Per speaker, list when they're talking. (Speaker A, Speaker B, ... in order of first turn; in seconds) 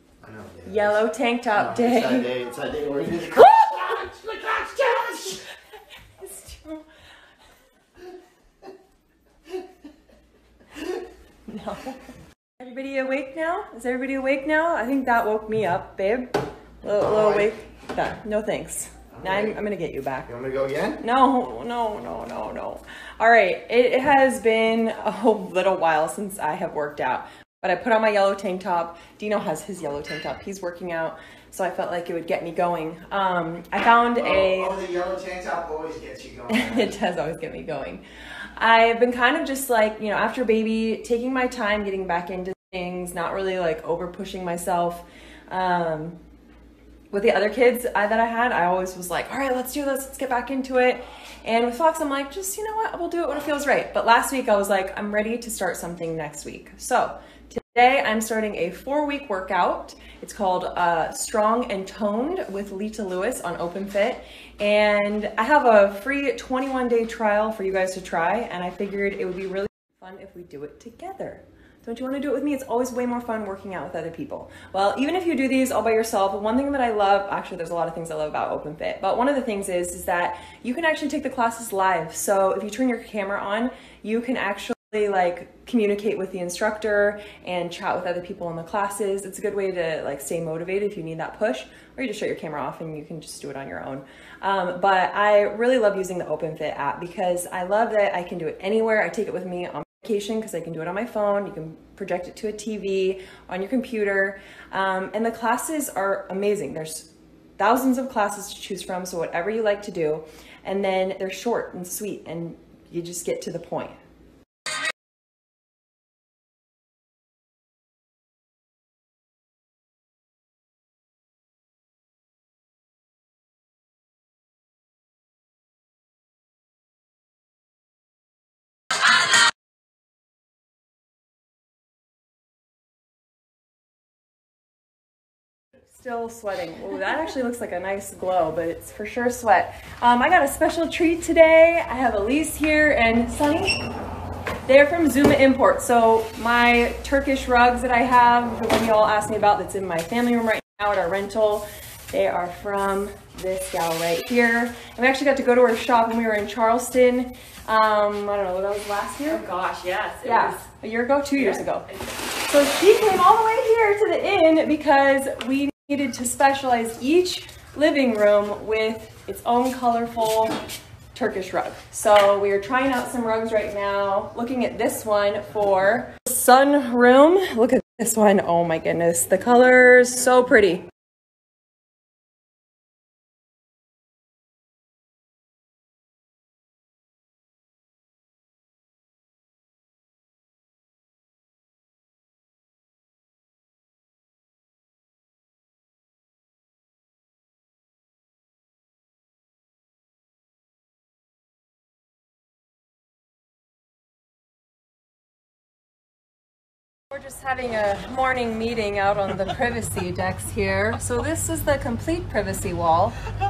Speaker A: 0.2-0.9, 1.5-5.4, 17.0-17.5, 19.1-19.6, 20.3-21.0, 34.2-36.9
Speaker B: 0.7-2.4, 6.2-6.9, 11.5-12.0, 12.6-20.3, 21.0-34.8, 36.5-38.0, 38.5-46.2, 47.1-114.0, 135.9-143.7, 144.7-159.4, 160.2-161.9, 162.4-170.6, 171.1-180.9, 207.1-213.2
Speaker C: 159.3-160.6, 161.4-162.0